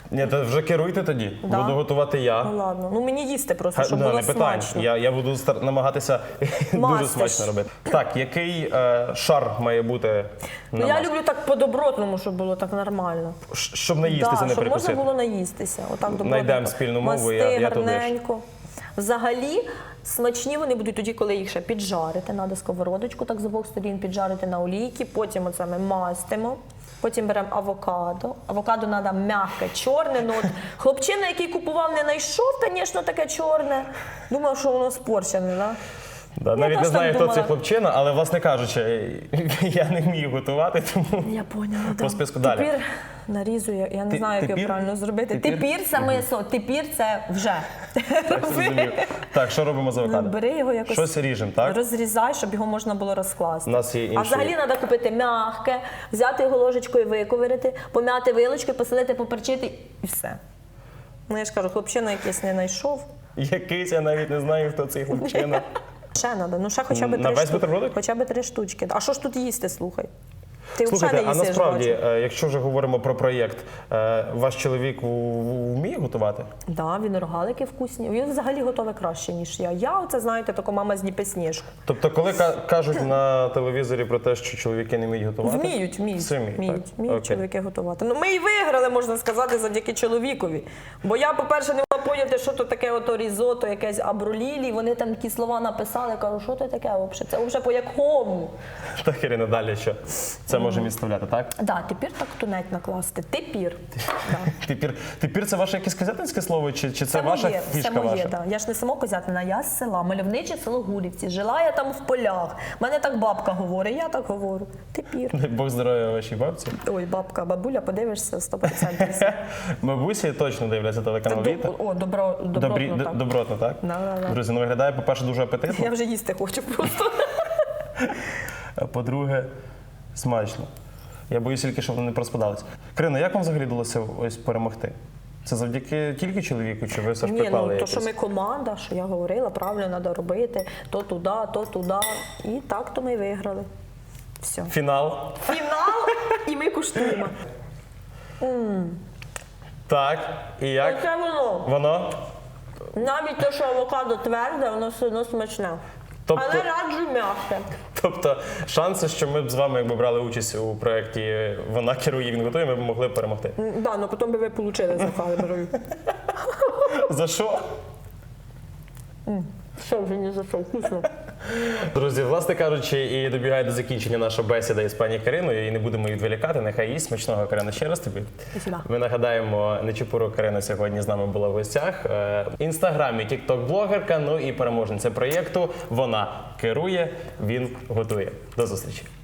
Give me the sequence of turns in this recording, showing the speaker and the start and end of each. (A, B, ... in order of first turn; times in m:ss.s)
0:00.1-0:02.5 A
0:01.4-0:01.8 B
0:02.4-0:04.9 B
0:03.8-0:11.1 A
0:06.7-0:07.5 B
0:10.8-0:13.4 B
0:13.5-0:15.0 A
0:14.0-0:18.4 B
0:16.1-0:18.1 A
0:19.0-0:35.8 B
0:36.4-0:41.3 A
0:36.5-0:37.5 B
0:41.2-0:49.2 B
0:41.9-0:42.7 A
0:44.1-0:46.1 A
0:48.3-0:50.4 A
0:50.0-1:00.4 B
0:50.9-0:51.8 A
0:53.7-0:54.5 A
1:01.3-1:03.1 B
1:03.4-1:05.7 A
1:06.2-1:10.1 B
1:06.9-1:08.0 A
1:10.8-1:12.0 B
1:10.8-1:16.5 A
1:16.7-1:21.7 B
1:21.9-1:27.4 A
1:25.4-1:38.5 B
1:39.0-1:41.5 A
1:40.5-1:40.8 B
1:41.6-1:44.5 B
1:44.5-1:48.3 A
1:47.1-1:55.4 B
1:55.3-1:56.8 A
1:56.8-1:59.4 B
1:59.0-2:01.7 A
2:01.3-2:03.2 B
2:02.5-2:05.9 A
2:03.8-2:04.4 B
2:05.7-2:07.6 B
2:08.8-2:09.5 A
2:10.1-2:10.7 A
2:11.3-2:18.1 A
2:17.2-2:23.7 B
2:24.4-2:24.7 B
2:24.7-2:25.4 A
2:25.4-2:27.4 B
2:28.4-2:29.0 B
2:29.9-2:31.0 A
2:30.8-2:31.7 B
2:31.6-2:32.2 A
2:32.9-2:35.8 B
2:36.3-2:36.7 A
2:36.3-2:37.8 B
2:37.9-2:43.6 A
2:43.6-2:45.8 B
2:46.9-2:47.6 A
2:49.3-2:51.1 B
2:51.5-3:09.1 A
2:58.5-2:58.8 B